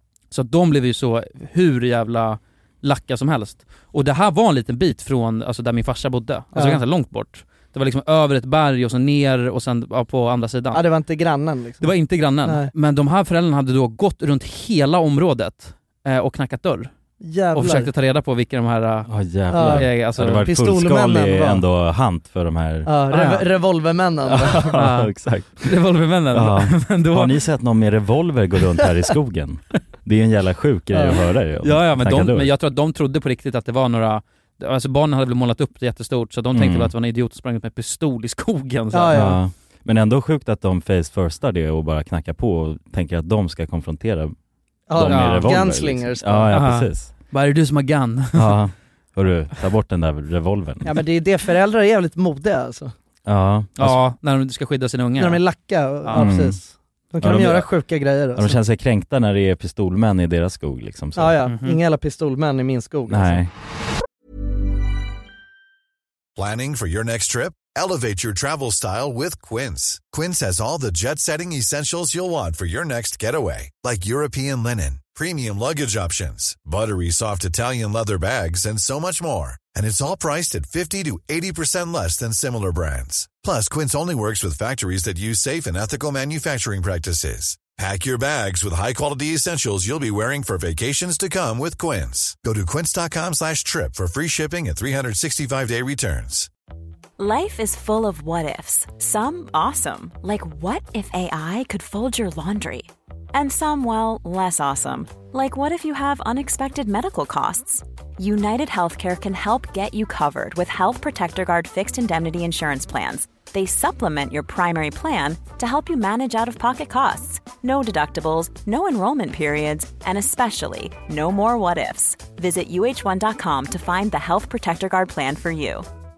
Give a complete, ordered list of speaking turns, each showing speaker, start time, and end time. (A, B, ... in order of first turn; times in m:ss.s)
0:00.3-0:10.8 A
0:06.5-0:06.8 B
0:10.7-0:11.9 B
0:11.8-0:16.9 A
0:12.4-0:12.7 B
0:17.2-0:17.9 B
0:17.5-0:20.4 A
0:19.1-0:22.9 C
0:19.5-0:21.6 B
0:22.8-0:24.8 B
0:23.1-0:23.4 A
0:24.3-0:25.7 C
0:24.7-0:27.4 A
0:26.3-0:32.5 C
0:30.9-0:31.2 B
0:31.6-0:39.2 A
0:36.5-0:36.9 C
0:38.9-0:39.4 B
0:39.1-0:44.3 C
0:44.9-0:46.6 B
0:44.9-0:47.1 C
0:45.0-0:45.6 A
0:46.5-0:48.6 A
0:48.3-0:51.0 C
0:50.8-0:52.9 B
0:53.2-0:54.0 C
0:53.8-0:55.4 A
0:55.2-0:58.6 B
0:56.0-0:56.3 A
0:56.1-0:56.6 C
0:57.2-0:57.7 C
0:58.3-1:01.4 C
1:01.2-1:03.4 B
1:01.5-1:01.8 A
1:03.1-1:03.5 C
1:06.4-1:36.5 D
1:37.2-2:05.8 E